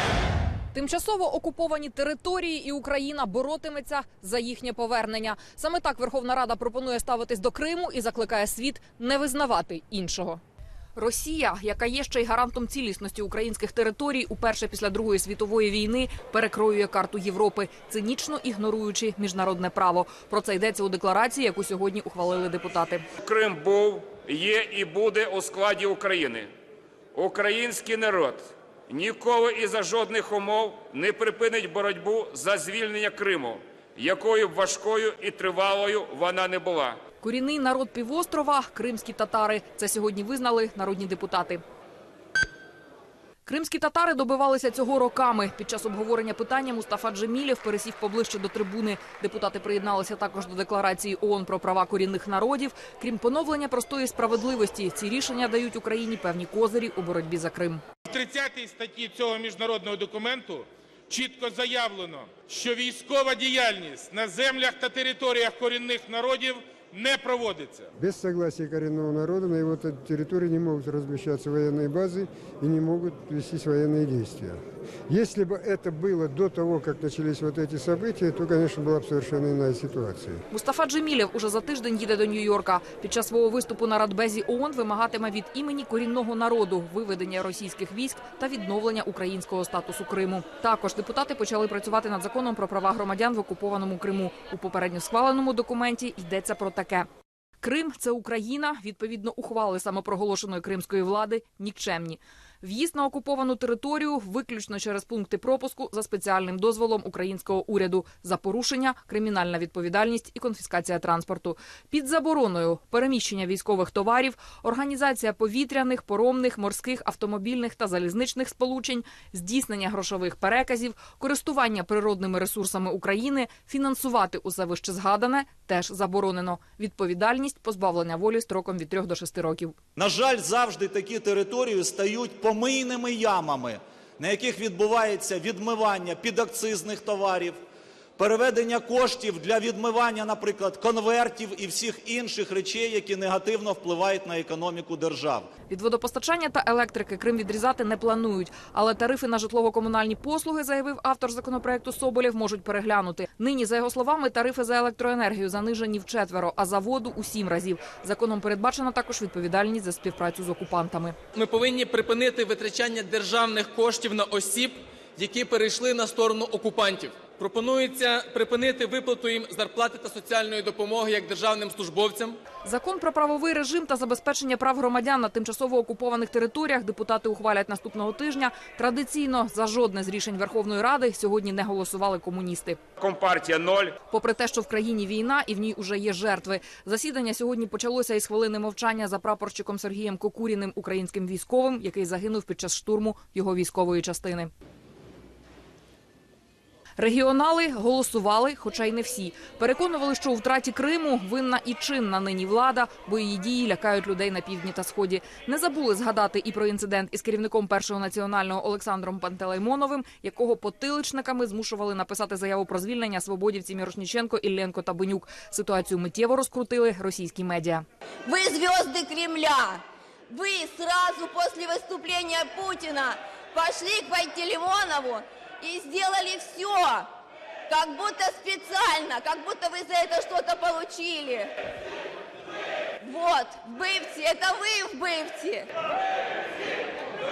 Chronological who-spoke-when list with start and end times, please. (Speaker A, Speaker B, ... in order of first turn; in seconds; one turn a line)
Speaker A: 0.7-10.4
Speaker A: 10.9-23.0
Speaker B: 23.2-26.5
Speaker B: 27.1-37.0
Speaker A: 37.2-41.6
Speaker A: 43.5-57.8
Speaker C: 58.1-67.9
Speaker D: 68.0-80.4
Speaker A: 80.5-97.1
Speaker A: 97.6-129.7
Speaker E: 130.0-137.6
Speaker E: 138.2-145.5
Speaker A: 145.7-161.2
Speaker F: 161.3-172.4
Speaker A: 172.6-182.8
Speaker B: 183.0-183.9
Speaker A: 184.1-194.5
Speaker A: 197.0-217.8
Speaker G: 218.2-227.1
Speaker G: 227.7-231.5
Speaker G: 233.0-235.7